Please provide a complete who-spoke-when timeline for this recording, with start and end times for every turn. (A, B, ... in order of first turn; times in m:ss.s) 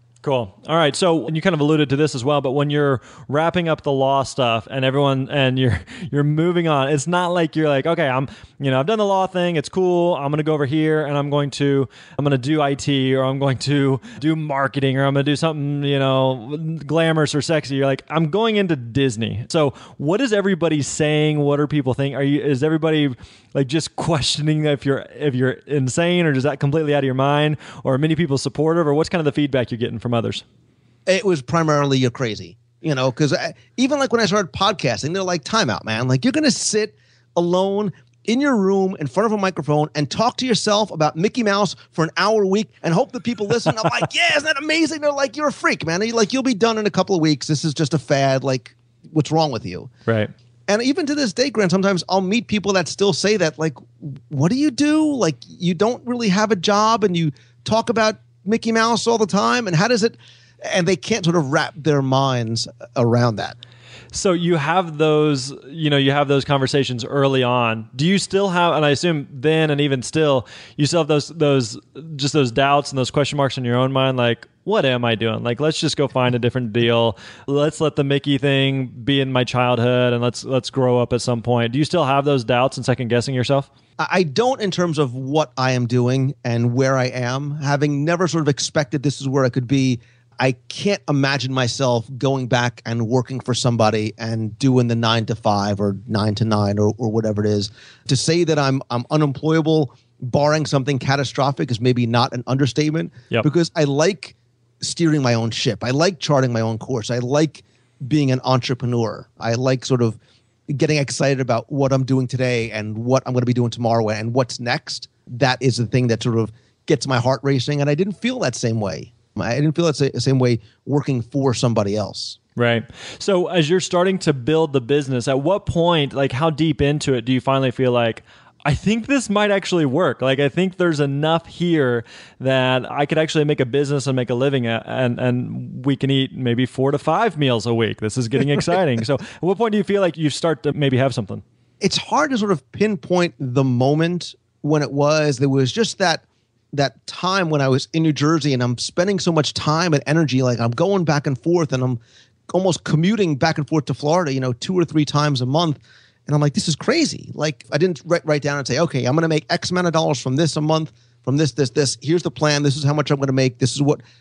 0:00.2-0:30.4 A
0:31.1-0:49.9 B
0:50.1-0:50.3 A
0:50.7-1:03.6 B
1:04.1-1:23.7 A
1:24.0-1:50.2 B
1:50.7-2:02.4 B
2:02.6-2:21.4 A
2:21.8-2:44.0 B